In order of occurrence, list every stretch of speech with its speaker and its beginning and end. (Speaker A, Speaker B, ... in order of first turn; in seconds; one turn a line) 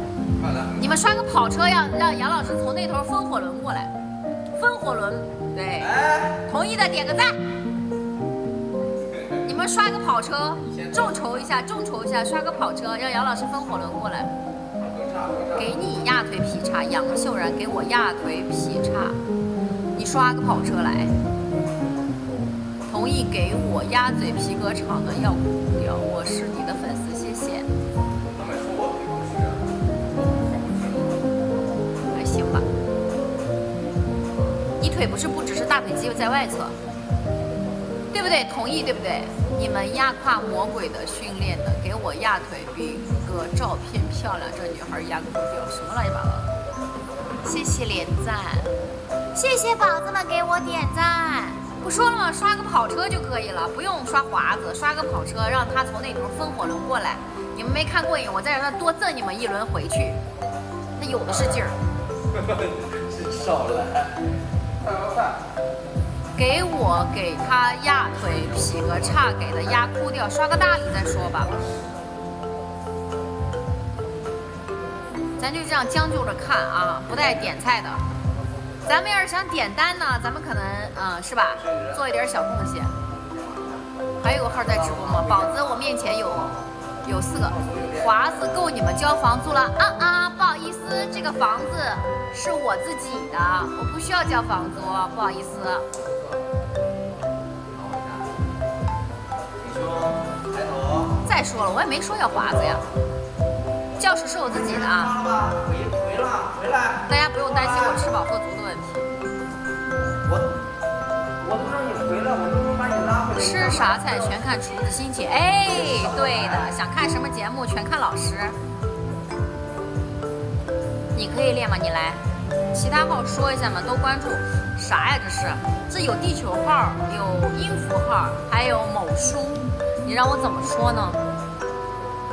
Speaker A: 0.4-1.0
Speaker B: 0.8-3.9
Speaker B: 4.6-6.0
Speaker A: 5.8-6.4
Speaker B: 6.5-7.4
Speaker A: 9.1-9.4
Speaker B: 9.4-14.3
Speaker A: 10.6-11.5
Speaker A: 14.8-15.8
Speaker B: 15.6-19.2
Speaker B: 20.0-21.1
Speaker B: 22.9-27.7
Speaker A: 28.4-29.6
Speaker A: 30.1-31.2
Speaker B: 32.1-32.7
Speaker B: 34.8-36.8
Speaker B: 38.1-46.5
Speaker B: 47.4-48.7
Speaker B: 49.4-60.2
Speaker B: 61.0-61.8
Speaker A: 61.3-61.7
Speaker A: 62.3-64.2
Speaker A: 64.8-65.4
Speaker B: 66.4-71.5
Speaker A: 68.1-69.8
Speaker A: 71.0-72.0
Speaker B: 75.4-78.0
Speaker B: 78.9-82.9
Speaker A: 81.5-82.0
Speaker A: 83.3-83.8
Speaker B: 84.2-86.5
Speaker A: 84.5-86.6
Speaker B: 87.0-95.8
Speaker A: 87.5-88.2
Speaker A: 96.0-96.4
Speaker A: 97.7-98.4
Speaker A: 99.6-101.2
Speaker B: 101.2-102.8
Speaker A: 102.5-102.8
Speaker B: 104.0-105.1
Speaker A: 104.5-108.0
Speaker B: 107.1-109.1
Speaker A: 111.4-114.4
Speaker B: 113.4-118.6
Speaker A: 115.7-116.7
Speaker B: 121.2-122.2
Speaker B: 122.7-131.2